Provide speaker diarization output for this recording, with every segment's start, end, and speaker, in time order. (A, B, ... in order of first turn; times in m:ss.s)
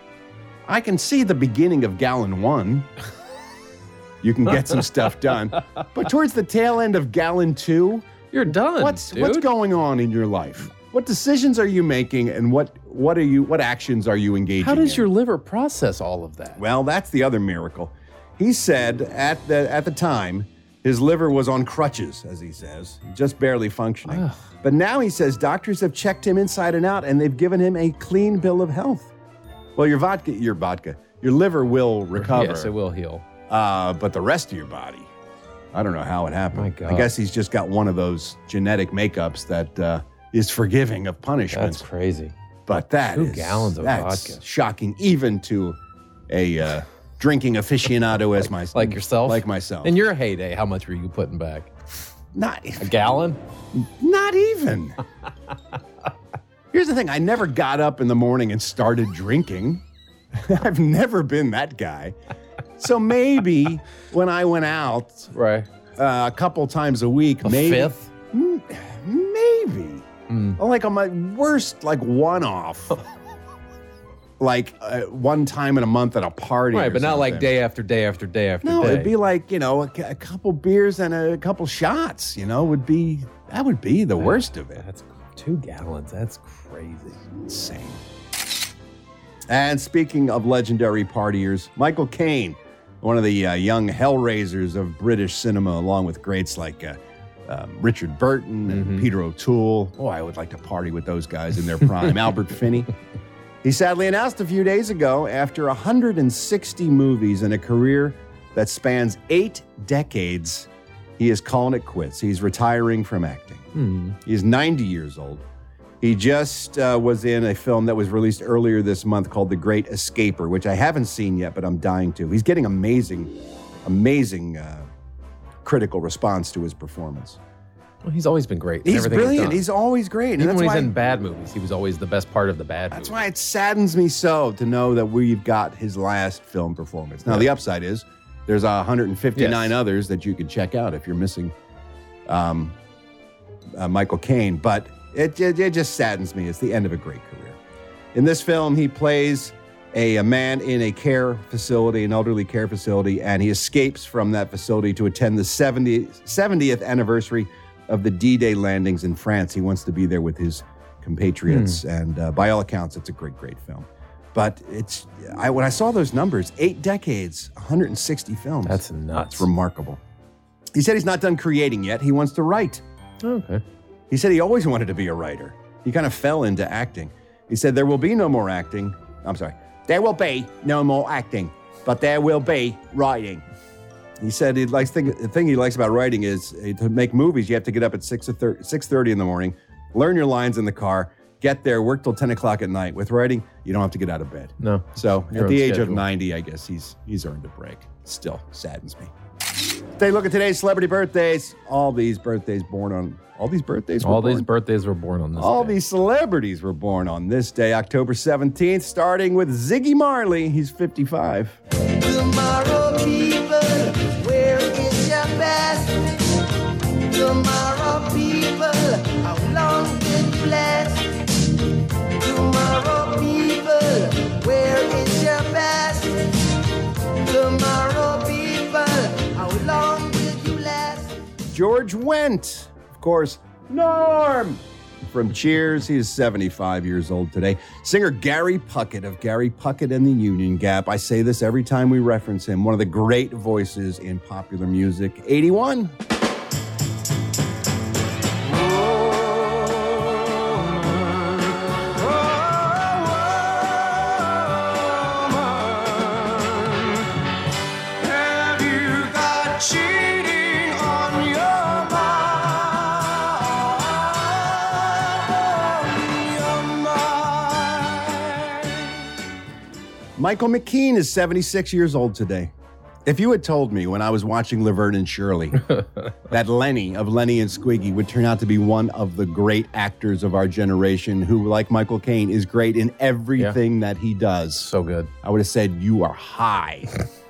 0:00.7-0:02.9 A
0:04.2-0:08.0 A
0:08.3-0:09.5 B
0:08.6-0:15.1 A
0:14.6-0:16.6 B
0:16.6-0:29.1 A
0:24.0-0:24.5 B
0:29.8-0:32.7 A
0:32.1-0:33.2 B
0:33.5-0:35.1 A
0:35.7-0:41.8 A
0:36.5-0:37.1 B
0:41.5-0:42.3 B
0:42.7-0:45.8 A
0:43.1-0:44.4 B
0:46.3-0:49.9 A
0:48.7-0:51.7 B
0:52.3-0:52.9 A
0:52.8-0:53.4 B
0:53.7-0:55.0 A
0:56.7-0:59.8 A
1:00.3-1:02.2 A
1:02.8-1:05.3 A
1:05.3-1:05.7 B
1:06.0-1:10.0 A
1:07.4-1:08.1 B
1:10.3-1:10.6 B
1:10.6-1:13.0 A
1:14.4-1:17.6 A
1:16.7-1:19.1 B
1:18.6-1:24.8 A
1:24.2-1:27.2 B
1:27.4-1:28.0 A
1:29.5-1:42.9 A
1:38.7-1:39.1 B
1:43.6-1:53.7 A
1:53.7-1:54.2 B
1:54.2-1:55.4 A
1:56.0-2:03.3 A
2:03.8-2:04.9 A
2:05.6-2:07.4 A
2:08.0-2:09.6 B
2:08.8-2:10.9 A
2:10.4-2:13.2 B
2:12.9-2:21.5 A
2:19.3-2:19.7 B
2:22.3-2:22.8 A
2:23.7-2:27.6 A
2:28.1-2:48.8 A
2:41.5-2:41.8 B
2:48.6-2:49.5 B
2:49.3-2:50.0 A
2:50.7-2:52.8 A
2:53.2-2:53.6 B
2:54.1-3:03.4 A
3:04.2-3:19.1 A
3:14.6-3:16.0 B
3:20.0-3:24.5 A
3:24.0-3:25.8 B
3:25.4-3:31.6 A
3:32.0-3:36.3 C
3:37.0-3:41.2 C
3:42.2-3:46.3 C
3:47.2-3:51.1 C
3:51.5-4:05.9 A
4:08.5-4:11.4 C
4:12.0-4:16.9 C
4:18.0-4:28.9 C
4:30.2-4:32.5 A
4:33.0-4:35.6 A
4:36.3-4:44.7 A
4:44.6-4:45.1 B
4:45.2-4:46.9 A